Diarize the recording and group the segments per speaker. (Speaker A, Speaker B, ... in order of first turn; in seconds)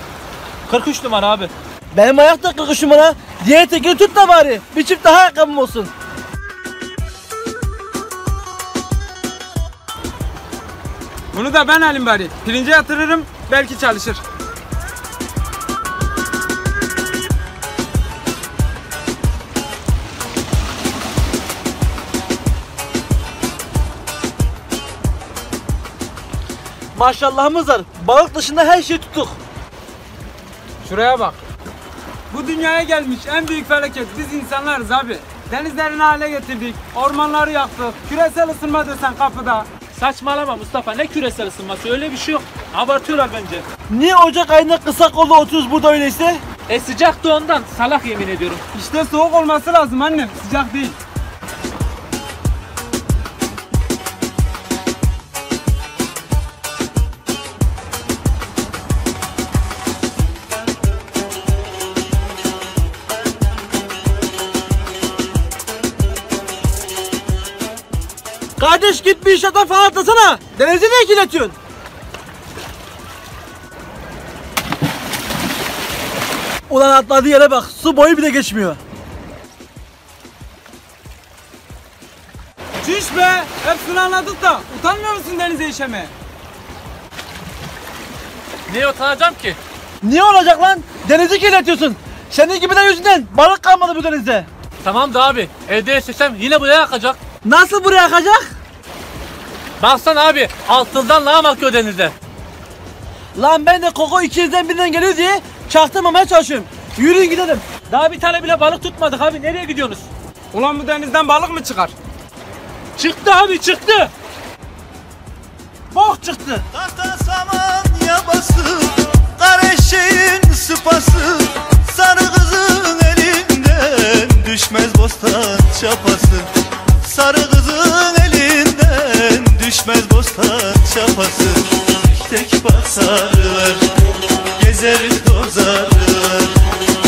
Speaker A: 0.7-1.5, 39.9-43.6, 46.7-48.6, 88.7-89.6, 94.8-97.2, 99.8-102.1, 107.8-110.1, 113.0-114.1
Speaker B: 1.9-5.9, 26.9-29.4, 43.9-46.4, 68.6-71.5, 76.7-78.8, 90.0-94.5, 97.4-98.5, 103.3-107.7, 115.9-116.7
Speaker C: 11.3-14.2, 30.8-31.4, 32.3-39.7, 48.7-51.0, 82.8-86.1, 110.5-111.9
Speaker D: 116.7-126.5, 127.0-133.9, 134.6-136.6